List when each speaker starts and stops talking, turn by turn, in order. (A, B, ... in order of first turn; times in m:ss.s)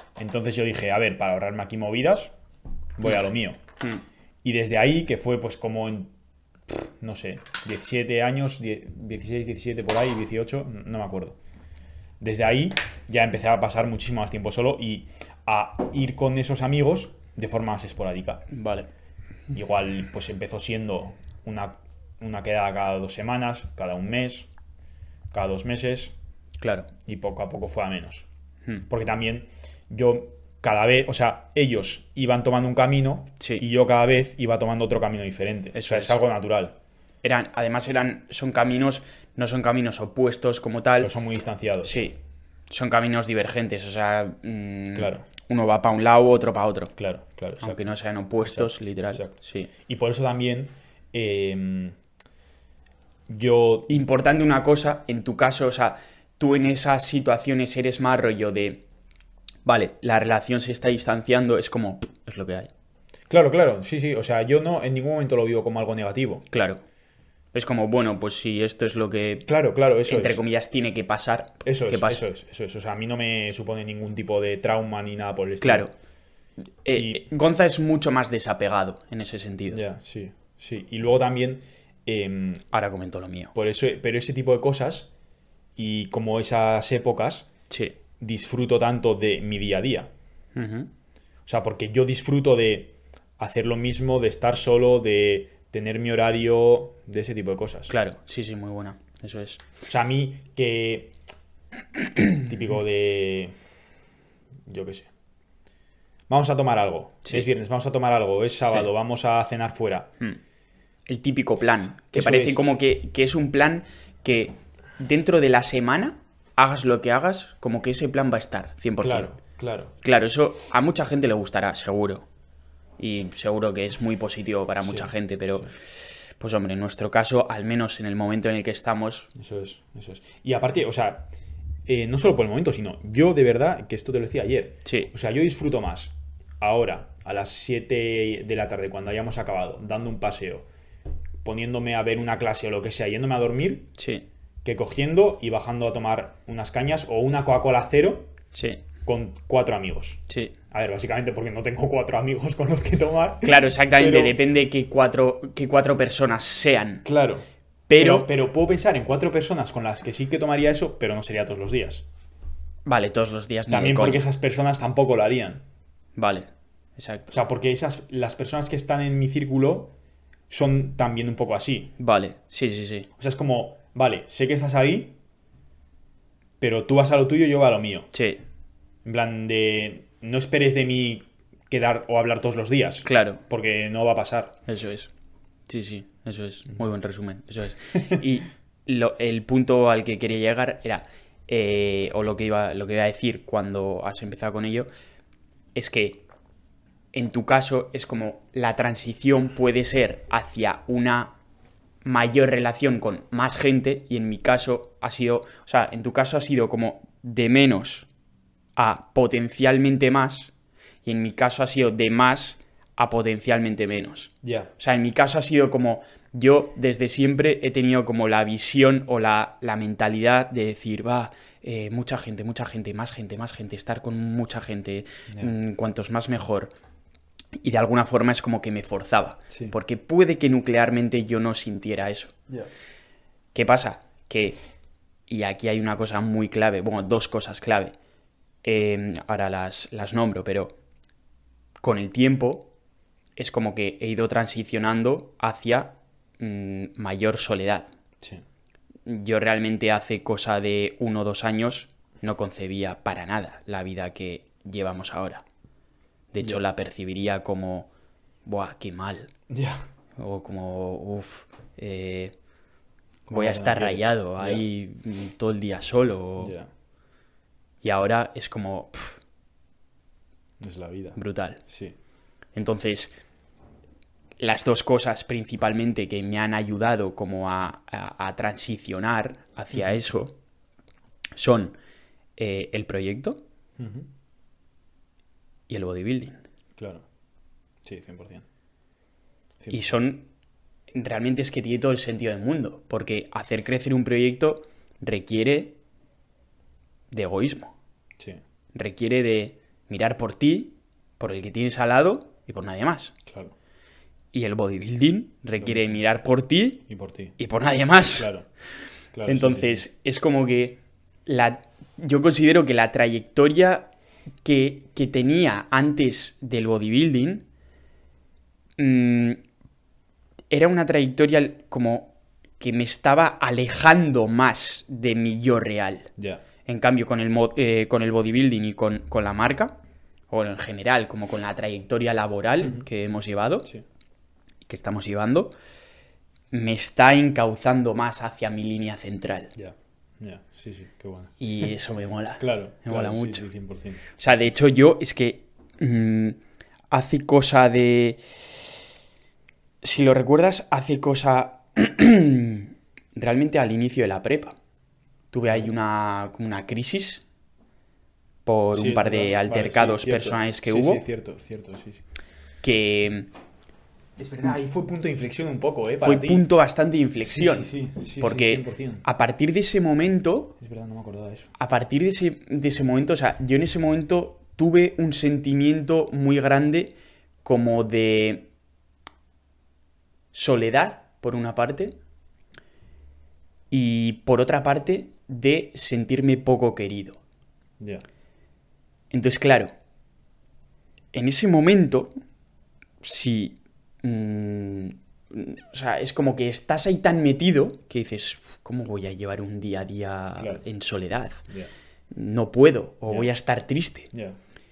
0:00.2-0:02.3 A
0:03.0-0:03.6 A
0:04.4-0:06.1 A
0:06.7-0:11.4 A
0:12.2-0:18.4 A
0:18.5-0:18.9 B
0:19.5-0:24.5 A
0:25.3-0:26.1 A
0:26.6-0:26.9 B
0:27.1-0:28.3 A
0:28.9-0:36.8 A
0:33.4-0:33.6 B
0:35.7-0:36.2 B
0:37.2-0:41.1 B
0:41.0-0:42.0 A
0:41.8-0:42.2 B
0:42.7-0:46.9 B
0:45.0-0:45.2 A
0:47.0-0:47.9 A
0:47.6-0:49.7 B
0:48.4-0:52.0 A
0:53.3-0:53.9 A
0:53.9-0:58.8 B
0:59.6-1:02.7 B
1:03.3-1:06.4 A
1:06.5-1:06.8 B
1:07.5-1:09.5 B
1:09.5-1:10.4 A
1:10.1-1:12.2 B
1:11.6-1:15.9 A
1:15.6-1:15.9 B
1:16.8-1:19.8 B
1:16.9-1:17.2 A
1:19.7-1:22.6 A
1:22.7-1:23.5 B
1:23.6-1:25.1 A
1:25.8-1:27.5 A
1:27.7-1:28.0 B
1:28.2-1:30.1 A
1:30.6-1:30.9 B
1:31.5-1:37.9 A
1:37.9-1:39.6 B
1:39.9-1:41.1 A
1:42.4-1:43.5 A
1:44.7-1:45.1 A
1:46.3-1:50.1 A
1:51.1-1:59.3 B
1:52.1-1:52.6 A
1:59.0-1:59.9 A
2:00.0-2:02.3 B
2:03.0-2:05.7 B
2:04.8-2:05.7 A
2:06.4-2:09.3 B
2:09.4-2:11.3 A
2:11.9-2:20.7 A
2:14.8-2:15.1 B
2:21.4-2:23.9 A
2:24.0-2:24.2 B
2:24.6-2:28.3 A
2:28.5-2:28.8 B
2:29.0-2:34.4 A
2:30.3-2:30.5 B
2:33.4-2:37.1 B
2:37.0-2:37.4 A
2:37.9-2:38.3 B
2:38.0-2:42.0 A
2:42.9-2:44.3 B
2:43.7-2:45.6 A
2:46.2-2:47.4 B
2:47.3-2:49.9 A
2:50.5-2:52.0 A
2:52.0-2:53.1 B
2:53.2-2:55.2 A
2:56.6-2:58.1 A
2:58.1-2:58.4 B
2:59.0-3:04.6 A
3:03.0-3:03.4 B
3:04.7-3:05.1 B
3:05.7-3:14.9 B
3:15.8-3:16.2 B
3:17.1-3:21.4 B
3:22.0-3:28.1 B
3:28.8-3:30.5 B
3:31.0-3:46.7 B
3:34.4-3:34.7 A
3:47.6-3:52.3 B
3:53.5-3:54.6 B
3:55.3-3:57.9 B
3:58.6-4:00.8 B
4:01.8-4:02.7 B
4:03.4-4:07.9 B
4:09.1-4:15.4 B
4:16.3-4:17.9 B
4:18.4-4:19.3 B
4:19.5-4:19.8 A
4:20.2-4:22.4 B
4:23.3-4:24.6 A
4:23.3-4:26.6 B
4:26.4-4:26.7 A
4:27.8-4:29.2 B
4:30.6-4:32.0 A
4:31.2-4:31.6 B
4:32.5-4:33.1 B
4:34.4-4:40.4 B
4:41.4-4:41.8 B
4:42.4-4:43.4 B
4:43.8-4:44.1 A
4:45.7-4:46.4 B
4:46.8-4:47.0 A
4:47.8-4:48.4 A
4:49.6-4:49.9 A
4:49.7-4:50.3 B
4:50.9-4:55.8 B
4:57.1-4:57.8 B
4:58.7-5:03.1 B
5:03.3-5:03.5 A
5:04.3-5:06.8 B
5:05.6-5:06.0 A
5:06.9-5:07.3 A
5:07.4-5:08.3 B
5:08.2-5:08.5 A
5:09.1-5:09.8 A
5:09.3-5:13.9 B
5:14.4-5:17.5 B
5:18.8-5:19.4 B
5:20.5-5:26.1 B
5:26.2-5:26.4 A
5:26.7-5:29.8 B
5:30.3-5:33.7 B
5:34.7-5:35.5 B
5:36.5-5:39.5 B
5:39.6-5:41.3 A
5:41.4-5:43.5 B
5:42.4-5:44.0 A
5:44.2-5:46.4 B
5:46.9-5:48.2 B
5:49.8-5:54.6 B
5:55.3-5:57.2 B
5:58.5-6:01.0 B
5:58.7-6:02.0 A
6:02.6-6:03.3 B
6:04.2-6:06.5 A
6:06.0-6:10.5 B
6:07.2-6:09.0 A
6:10.6-6:11.5 A
6:11.6-6:18.5 B
6:20.3-6:22.0 B
6:23.7-6:27.2 B
6:27.8-6:28.0 A
6:29.1-6:29.7 B
6:31.1-6:32.1 B
6:33.0-6:41.5 B
6:40.4-6:40.6 A
6:42.1-6:44.1 B